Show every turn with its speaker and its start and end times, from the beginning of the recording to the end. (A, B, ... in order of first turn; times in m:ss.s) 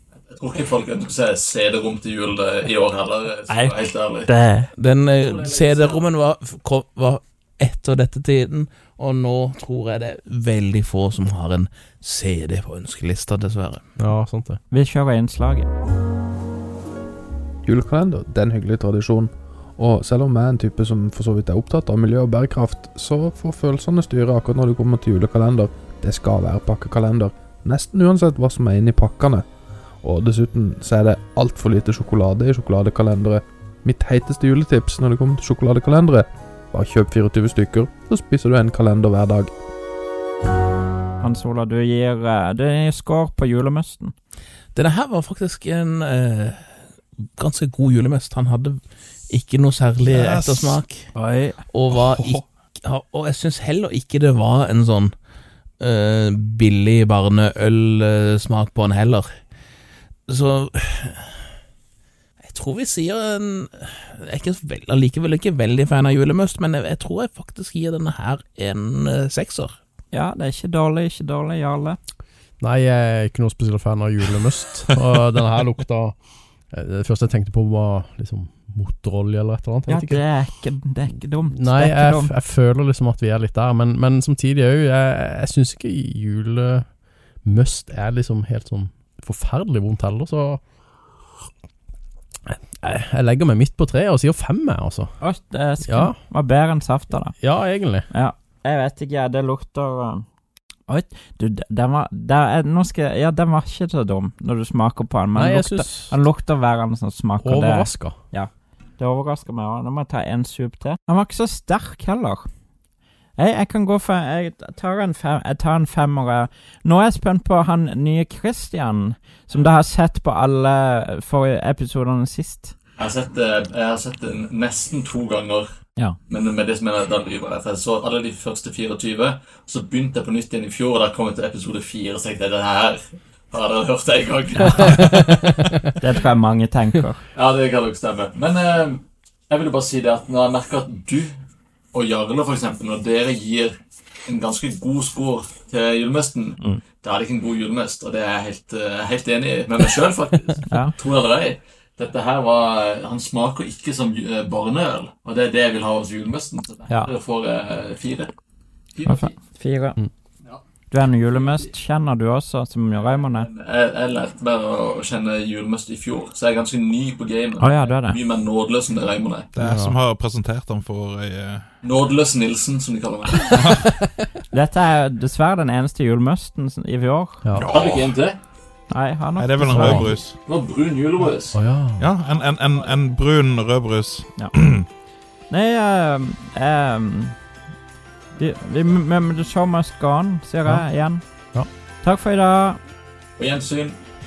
0:00.3-0:04.3 A
0:03.5-0:04.7 B
0:04.8-0:13.8 C
0:05.2-0:06.0 A
0:14.0-0:14.6 D
0:14.7-0:15.7 B
0:17.6-0:29.4 E
0:30.0-0:39.5 E
0:41.2-0:44.1 B
0:44.7-0:46.6 C
0:47.4-0:48.8 C
0:49.3-0:51.0 C
0:50.0-0:50.8 F
0:51.1-0:51.6 B
0:51.7-0:55.1 C
0:51.9-0:52.5 F
0:55.8-0:59.3 C
1:00.3-1:01.4 C
1:02.4-1:09.7 C
1:10.1-1:12.0 B
1:12.6-1:16.2 D
1:16.7-1:20.2 D
1:19.9-1:22.3 B
1:21.5-1:30.6 D
1:32.5-1:35.2 D
1:35.2-1:37.4 B
1:35.8-1:36.2 D
1:37.3-1:38.1 D
1:38.1-1:40.2 B
1:40.9-1:52.5 B
1:45.3-1:46.1 D
1:47.4-1:48.2 D
1:53.4-2:02.8 B
2:03.0-2:15.2 A
2:14.8-2:15.8 D
2:16.0-2:17.2 B
2:17.3-2:21.3 A
2:21.9-2:38.3 A
2:30.7-2:30.9 B
2:36.9-2:37.1 B
2:38.9-2:39.3 A
2:39.1-2:40.0 B
2:40.9-2:43.5 B
2:41.3-2:41.6 A
2:43.3-2:49.5 A
2:47.6-2:48.2 B
2:49.5-2:51.7 F
2:49.6-2:50.0 D
2:51.8-2:53.6 A
2:53.5-2:53.9 F
2:54.5-2:57.4 B
2:57.4-2:57.7 D
2:57.6-2:58.1 F
2:57.7-2:58.4 A
2:58.9-3:00.1 B
2:59.4-3:00.4 F
2:59.7-3:00.0 D
2:59.9-3:01.6 A
3:01.5-3:02.1 D
3:02.0-3:04.8 F
3:05.5-3:07.4 B
3:08.4-3:11.2 B
3:10.6-3:11.7 D
3:12.0-3:12.8 B
3:13.4-3:14.0 A